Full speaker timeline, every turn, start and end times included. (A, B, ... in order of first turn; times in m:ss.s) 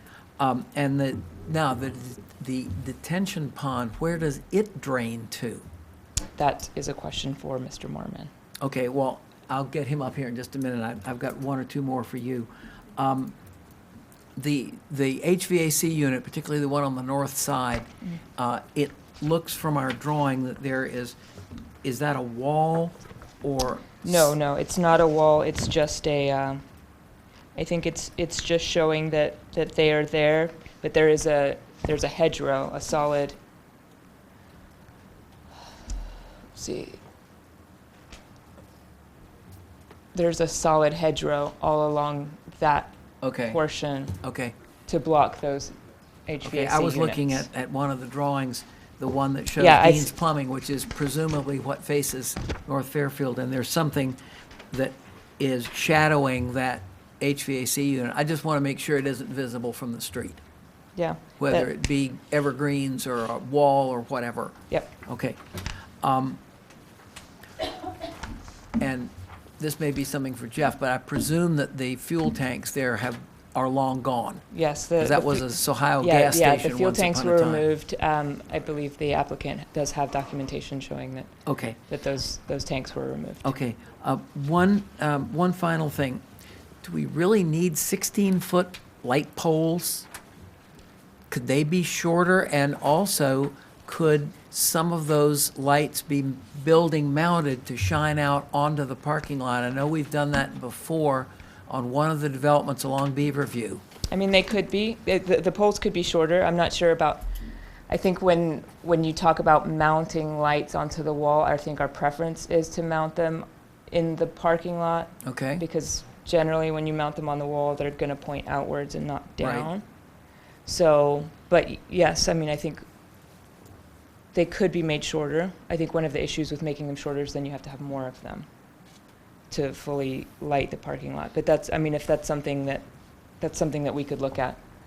0:00.4-0:05.6 A
0:06.4-0:08.3 B
0:08.6-0:13.3 A
0:14.4-0:21.2 A
0:21.8-0:24.3 A
0:24.0-0:26.6 B
0:27.5-0:33.4 B
0:36.5-0:37.0 B
0:40.1-0:42.9 B
0:43.2-0:43.6 A
0:43.4-0:44.2 B
0:44.2-0:44.5 A
0:44.9-0:45.7 B
0:46.2-0:47.4 B
0:46.4-0:54.2 A
0:49.6-0:50.1 B
0:54.7-1:00.4 A
1:00.9-1:01.7 B
1:01.4-1:06.4 A
1:08.8-1:14.4 A
1:14.5-1:21.3 B
1:15.0-1:17.7 A
1:21.4-1:21.8 A
1:21.9-1:23.6 B
1:23.4-1:26.2 A
1:26.8-1:30.1 A
1:31.3-1:43.8 A
1:44.1-1:47.2 B
1:47.9-1:59.8 B
1:55.2-1:55.6 A
1:59.4-1:59.7 A
2:00.6-2:02.8 B
2:04.3-2:08.5 B
2:09.5-2:12.8 B
2:13.4-2:14.6 B